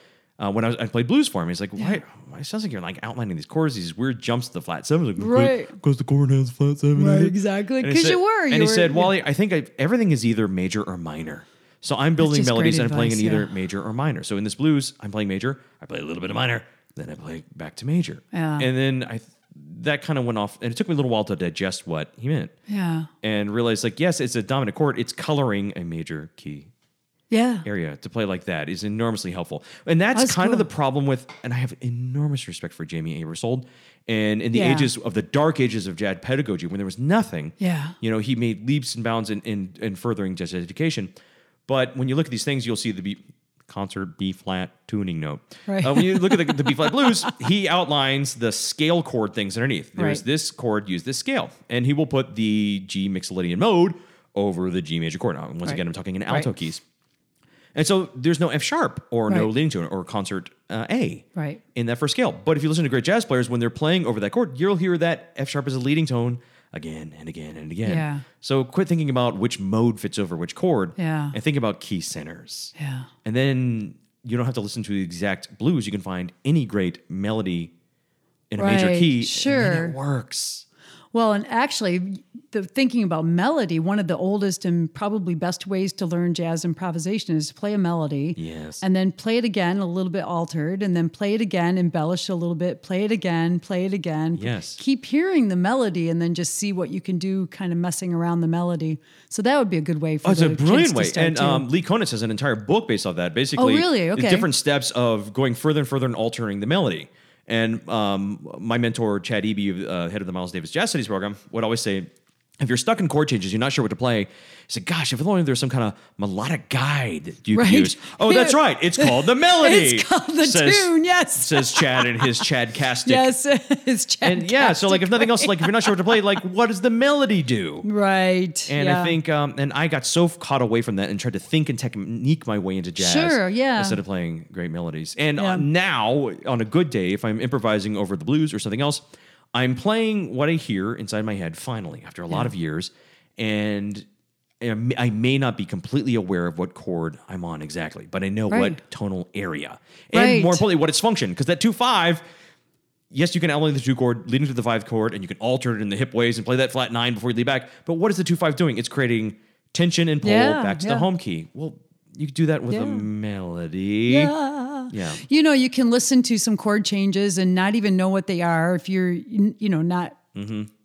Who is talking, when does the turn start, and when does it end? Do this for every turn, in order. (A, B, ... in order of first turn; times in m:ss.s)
0:00.4-0:22.5 A
0:05.2-0:05.8 B
0:07.0-0:09.1 B
0:12.2-0:13.5 B
0:18.3-0:18.7 B
0:22.7-0:23.1 B
0:23.2-0:26.7 A
0:27.3-0:27.7 B
0:27.6-0:41.1 A
0:30.1-0:30.7 B
0:34.5-0:34.9 B
0:37.6-0:38.0 B
0:41.7-0:56.8 A
0:45.7-0:47.1 B
0:55.6-0:56.5 B
0:57.7-1:12.7 A
1:01.4-1:01.6 B
1:07.8-1:08.2 B
1:11.0-1:11.4 B
1:12.8-1:13.1 B
1:13.2-1:17.7 A
1:18.5-1:20.6 A
1:18.6-1:20.0 B
1:21.1-1:41.7 B
1:28.4-1:28.8 A
1:34.4-1:34.8 A
1:40.2-1:52.1 A
1:43.6-1:44.5 B
1:52.6-2:03.3 A
1:57.5-2:02.5 B
2:03.0-2:06.2 B
2:04.2-2:07.9 A
2:07.8-2:09.2 B
2:08.7-2:19.0 A
2:13.0-2:14.0 B
2:15.4-2:15.7 B
2:19.5-2:24.1 A
2:24.6-2:32.2 A
2:28.5-2:28.8 B
2:30.1-2:30.7 B
2:33.1-2:44.3 A
2:40.2-2:41.1 B
2:42.7-2:43.0 B
2:44.1-2:50.2 B
2:44.9-2:45.2 A
2:50.4-2:50.7 A